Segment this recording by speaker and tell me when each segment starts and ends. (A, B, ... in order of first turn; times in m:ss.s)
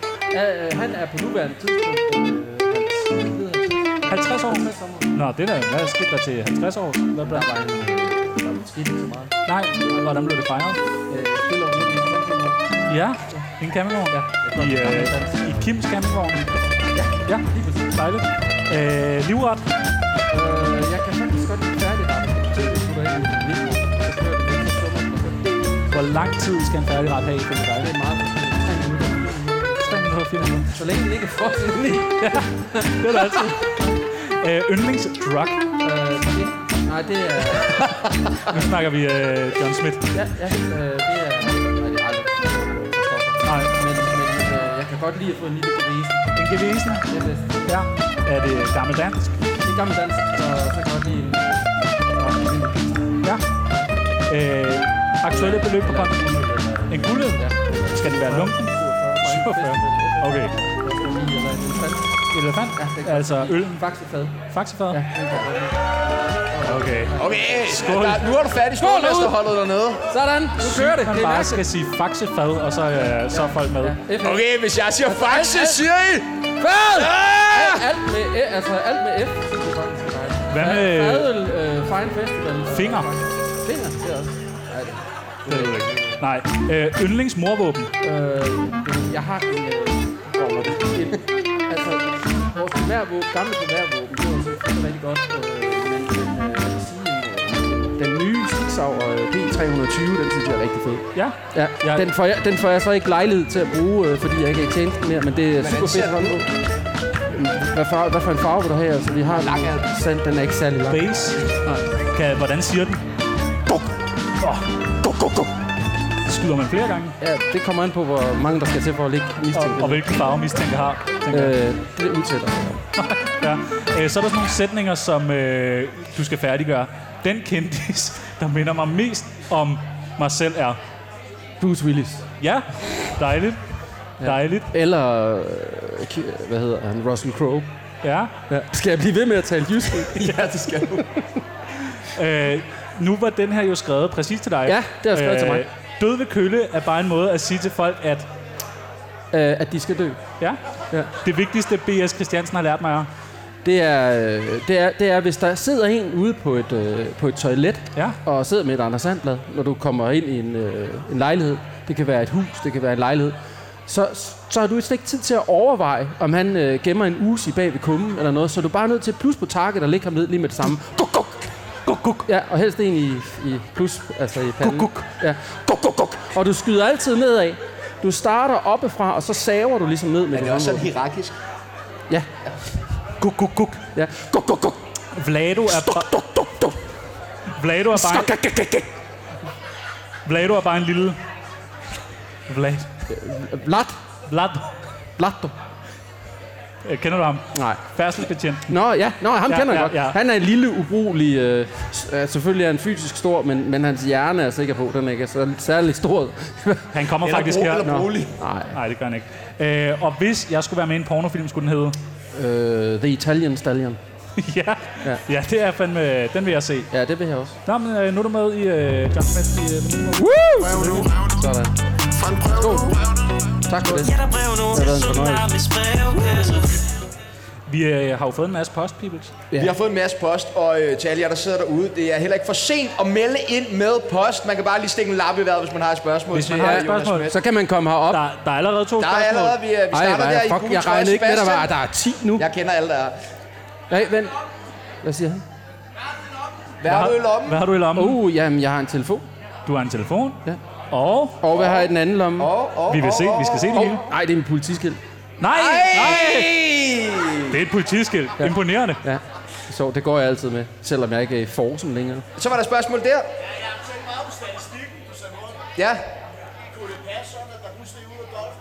0:00.3-0:05.1 A
0:04.1-0:07.5 B
0:07.2-0:09.4 A
0:09.4-0:10.8 B
0:11.1-0:12.7 A
0:12.9-0:16.6 B
0:14.1-0:15.6 A
0:16.9-0:17.9 A
0:17.2-0:19.7 B
0:20.3-0:25.7 A
0:25.9-0:27.9 B
0:27.8-0:33.6 A
0:29.8-0:30.7 B
0:32.2-0:35.6 B
0:35.8-0:38.6 A
0:38.4-0:40.1 B
0:40.1-0:46.3 A
0:43.4-0:43.7 B
0:46.4-0:47.1 B
0:47.1-0:47.6 A
0:47.6-0:49.4 B
0:49.6-0:53.2 A
0:54.3-0:56.2 B
0:55.3-1:02.2 A
0:56.9-0:58.7 B
0:59.2-1:00.5 B
1:02.3-1:03.8 B
1:02.8-1:04.4 A
1:04.5-1:05.0 B
1:04.9-1:07.7 A
1:06.6-1:08.2 B
1:07.1-1:10.1 C
1:08.8-1:09.4 A
1:10.1-1:11.6 A
1:10.6-1:14.0 B
1:13.0-1:14.4 A
1:14.2-1:16.3 C
1:15.0-1:15.8 A
1:16.6-1:26.2 A
1:16.9-1:17.9 C
1:20.5-1:21.3 B
1:22.7-1:23.1 B
1:25.5-1:27.9 B
1:28.0-1:46.5 A
1:41.1-1:42.1 B
1:45.6-1:46.5 C
1:47.3-1:51.8 A
1:49.3-1:49.9 C
1:50.9-1:51.4 B
1:52.1-1:53.0 B
1:53.7-1:53.9 A
1:54.4-1:54.6 B
1:55.0-1:55.5 A
1:56.3-1:57.1 B
1:57.2-2:00.0 A
1:59.5-2:01.6 B
2:01.3-2:02.8 A
2:03.0-2:10.8 B
2:11.6-2:12.2 A
2:12.4-2:13.6 B
2:14.2-2:17.7 A
2:14.2-2:14.7 B
2:18.0-2:18.3 B
2:18.5-2:21.3 A
2:20.2-2:21.1 C
2:22.0-2:28.3 B
2:24.6-2:25.6 A
2:29.3-2:30.2 A
2:31.2-2:33.1 B
2:33.6-2:43.4 A
2:43.9-2:51.5 A
2:51.9-2:52.3 B
2:52.2-3:00.9 A
2:54.6-2:55.1 B
3:00.3-3:01.4 C
3:03.2-3:03.8 B
3:03.9-3:04.8 A
3:05.1-3:06.1 B
3:05.7-3:06.8 A
3:07.5-3:08.3 B
3:07.9-3:08.9 A
3:10.3-3:11.2 B
3:12.5-3:12.9 B
3:13.1-3:13.9 A
3:14.3-3:14.7 B
3:15.2-3:15.5 A
3:16.8-3:18.8 B
3:17.5-3:17.8 A
3:18.7-3:26.9 A
3:19.5-3:20.2 B
3:26.9-3:27.9 B
3:27.2-3:28.4 C
3:27.8-3:28.8 A
3:28.7-3:32.0 B
3:32.4-3:34.0 A
3:34.4-3:36.9 B
3:36.9-3:37.6 A
3:37.6-3:40.3 B
3:40.1-3:41.7 A
3:40.6-3:41.5 D
3:42.1-3:43.2 D
3:42.5-3:43.0 A
3:43.6-3:44.1 A
3:43.9-3:46.8 E
3:44.7-3:45.5 A
3:47.7-3:49.3 B
3:49.6-3:57.4 C
3:56.3-3:57.3 B
3:56.6-3:58.2 A
3:58.1-3:59.6 B
3:59.0-4:01.7 C
3:59.9-4:02.4 A
4:02.4-4:03.2 C
4:03.9-4:04.3 A
4:05.0-4:05.4 A
4:06.8-4:07.6 C
4:06.9-4:08.2 B
4:07.9-4:09.3 A
4:09.6-4:11.4 B
4:11.4-4:12.5 A
4:11.5-4:13.9 C
4:12.9-4:14.0 B
4:13.7-4:15.0 A
4:15.4-4:16.5 B
4:15.5-4:17.6 C
4:17.5-4:19.0 B
4:18.4-4:22.2 A
4:22.4-4:23.3 C
4:25.8-4:26.0 C